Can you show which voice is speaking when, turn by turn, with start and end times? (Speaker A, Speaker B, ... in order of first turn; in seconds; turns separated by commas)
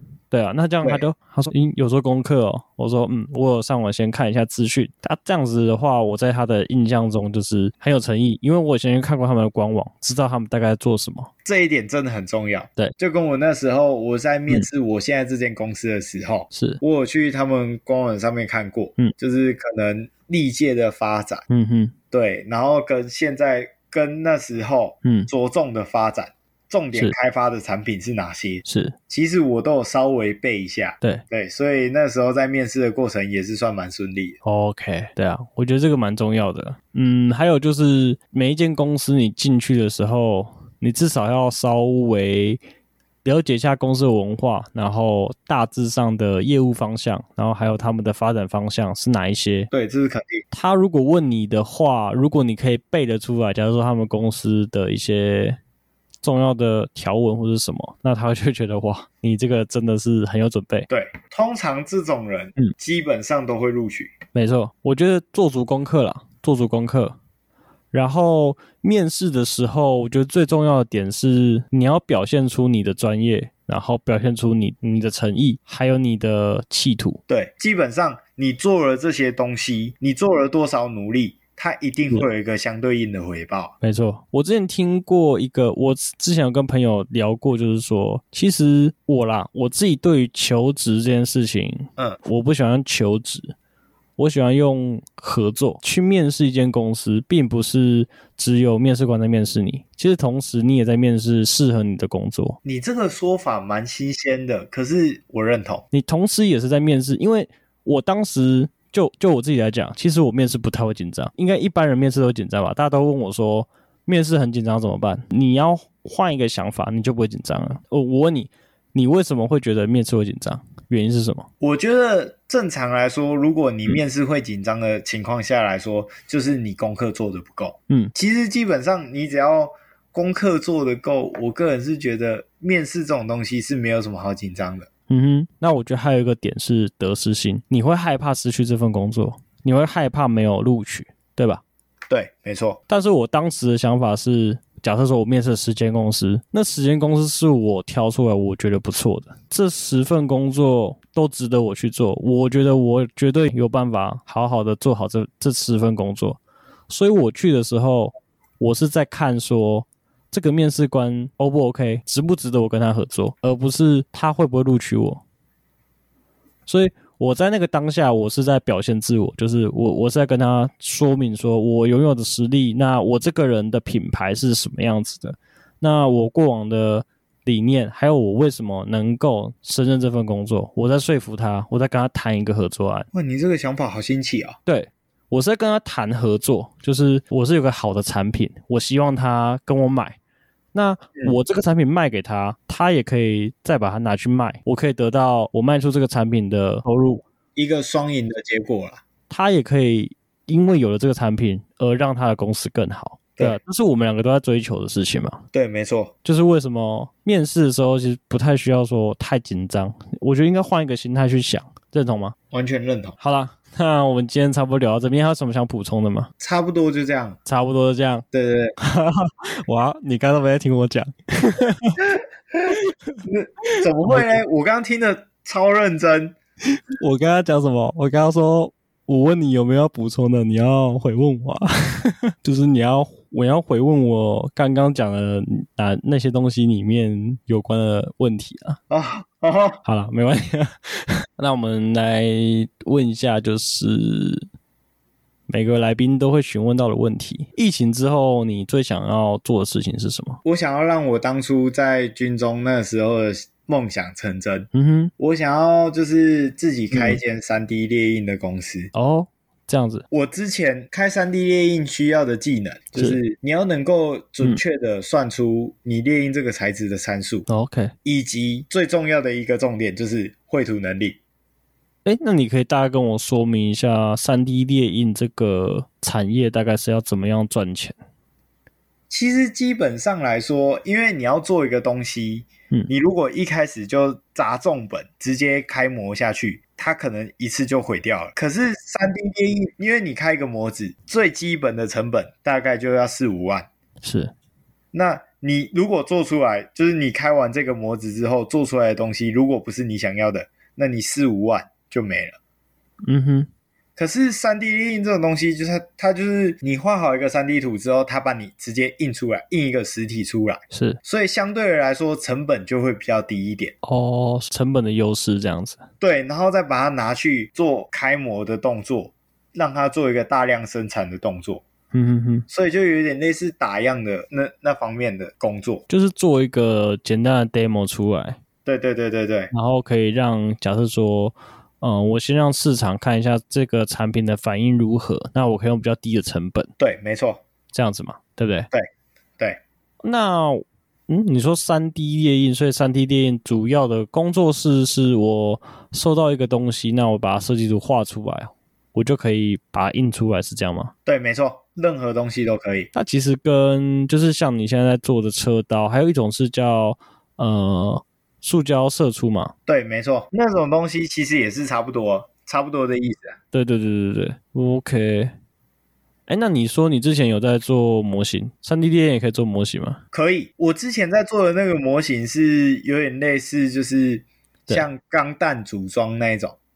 Speaker A: 0.3-11.3, Speaker B: 11.4-21.4, Speaker A: 16.5-16.8, Speaker A: 21.5-21.9, Speaker B: 22.1-34.4, Speaker A: 25.0-25.3, Speaker A: 28.6-28.9, Speaker A: 34.4-42.6, Speaker A: 43.2-49.7, Speaker B: 49.7-50.4, Speaker A: 50.5-55.6, Speaker A: 56.2-60.9, Speaker B: 60.9-64.1, Speaker A: 64.3-67.1, Speaker A: 67.9-77.2, Speaker B: 77.3-83.7, Speaker A: 83.8-93.5, Speaker A: 94.2-102.6, Speaker B: 102.6-105.8, Speaker A: 105.9-121.5, Speaker B: 121.6-134.9, Speaker A: 135.1-141.6, Speaker B: 142.1-142.8, Speaker A: 142.9-165.2, Speaker A: 166.7-183.1, Speaker B: 183.1-184.6, Speaker A: 184.7-190.2, Speaker A: 190.7-197.2, Speaker B: 197.6-199.0, Speaker A: 199.3-205.4, Speaker B: 205.5-206.1, Speaker A: 206.2-212.3, Speaker B: 212.5-213.2, Speaker A: 213.2-216.3, Speaker B: 216.4-217.4, Speaker A: 217.4-218.2, Speaker B: 218.3-218.7, Speaker A: 218.8-222.0, Speaker B: 223.3-226.3, Speaker A: 224.1-224.4, Speaker A: 226.9-238.8, Speaker B: 238.9-239.8, Speaker A: 239.8-244.4, Speaker A: 245.5-250.4, Speaker B: 250.4-258.9, Speaker A: 254.7-255.1, Speaker A: 256.9-257.2, Speaker A: 258.9-260.0, Speaker B: 260.1-267.5, Speaker A: 267.5-267.9, Speaker B: 268.0-271.2, Speaker A: 272.0-277.9, Speaker B: 279.1-293.7, Speaker A: 294.0-294.3, Speaker B: 294.9-302.4, Speaker A: 303.1-303.5, Speaker B: 304.0-313.7, Speaker A: 310.7-311.0, Speaker A: 313.8-315.8, Speaker B: 316.0-321.6, Speaker A: 321.9-322.4, Speaker B: 322.5-325.8, Speaker A: 325.9-328.4, Speaker B: 328.6-329.5, Speaker A: 329.5-336.7, Speaker B: 336.8-337.4, Speaker A: 337.7-338.7, Speaker A: 340.0-350.9, Speaker B: 351.1-352.9, Speaker A: 352.9-359.5, Speaker B: 359.7-363.3, Speaker A: 363.5-365.3, Speaker A: 366.3-370.0, Speaker B: 370.1-376.6